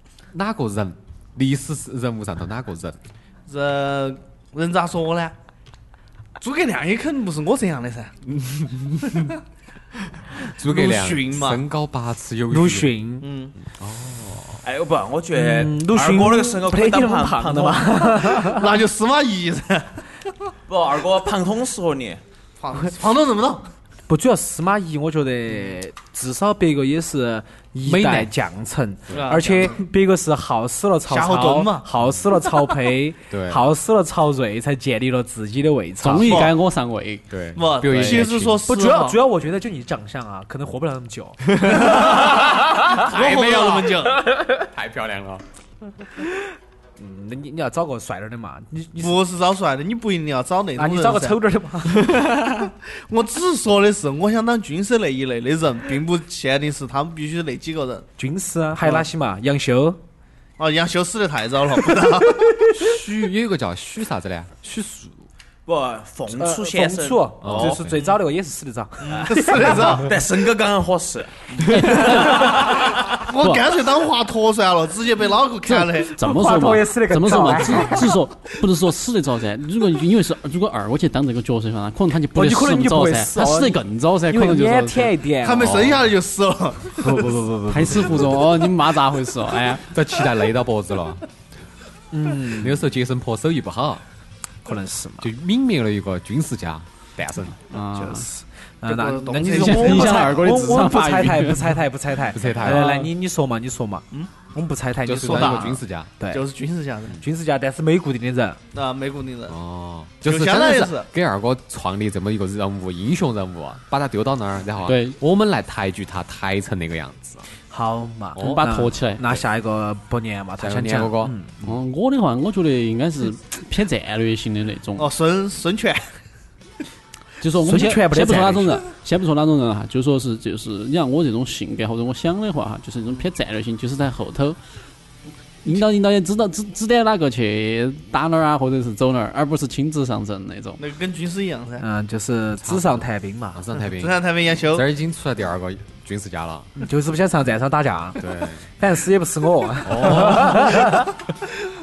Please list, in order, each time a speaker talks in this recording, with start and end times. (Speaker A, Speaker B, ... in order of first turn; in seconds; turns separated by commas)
Speaker A: 0.3-3.0, Speaker B: 3.5-5.3, Speaker B: 6.4-8.1, Speaker A: 8.3-9.3, Speaker A: 10.4-13.0, Speaker B: 10.5-11.6, Speaker C: 12.5-13.3, Speaker B: 13.2-13.5, Speaker A: 13.7-14.6, Speaker D: 14.6-18.4, Speaker C: 15.3-18.7, Speaker B: 18.4-20.0, Speaker D: 20.7-22.2, Speaker B: 22.6-23.7, Speaker C: 24.1-36.5, Speaker A: 27.8-28.3, Speaker B: 29.1-29.8, Speaker B: 31.1-31.9, Speaker A: 33.3-33.6, Speaker E: 36.0-37.2, Speaker B: 36.2-36.5, Speaker A: 37.3-38.6, Speaker B: 37.5-39.2, Speaker E: 37.9-38.2, Speaker C: 38.6-41.5, Speaker B: 41.5-44.2, Speaker A: 42.0-42.3, Speaker A: 42.8-45.4, Speaker C: 47.0-49.2, Speaker B: 49.0-58.1, Speaker C: 50.8-52.1, Speaker C: 58.2-60.0, Speaker B: 60.6-62.6, Speaker A: 62.7-64.5, Speaker C: 64.6-65.1, Speaker D: 65.7-67.8, Speaker C: 66.3-70.0, Speaker A: 67.4-68.0, Speaker D: 69.1-73.0, Speaker B: 69.2-70.1, Speaker B: 71.5-76.2, Speaker E: 71.6-72.7, Speaker E: 73.3-73.6, Speaker E: 75.7-85.1, Speaker C: 76.1-78.1, Speaker C: 82.3-83.8, Speaker C: 84.3-85.8, Speaker B: 85.4-87.2, Speaker A: 85.6-86.1, Speaker C: 87.0-88.3, Speaker E: 87.7-89.8, Speaker A: 89.8-91.2, Speaker C: 92.1-92.8, Speaker A: 92.4-94.0, Speaker C: 94.6-95.3, Speaker A: 95.2-97.7, Speaker E: 97.7-98.3, Speaker C: 97.8-106.4, Speaker B: 98.8-100.4, Speaker E: 99.3-101.8, Speaker A: 102.3-103.0, Speaker E: 102.6-103.1, Speaker A: 105.0-106.1, Speaker B: 105.2-107.2, Speaker C: 107.2-108.6, Speaker B: 108.7-109.6, Speaker A: 109.5-117.4, Speaker B: 110.2-111.1, Speaker E: 114.8-115.1, Speaker C: 117.7-121.7, Speaker A: 118.3-118.6, Speaker E: 118.4-119.2, Speaker A: 120.6-121.4, Speaker E: 121.6-125.1, Speaker B: 125.0-126.1, Speaker E: 127.4-134.6, Speaker C: 127.6-128.8, Speaker E: 135.6-140.8, Speaker B: 140.8-141.8, Speaker C: 141.8-143.6, Speaker A: 142.6-146.7, Speaker B: 143.9-144.8, Speaker C: 146.8-148.2, Speaker A: 148.2-148.6, Speaker C: 148.8-151.1, Speaker A: 149.8-150.9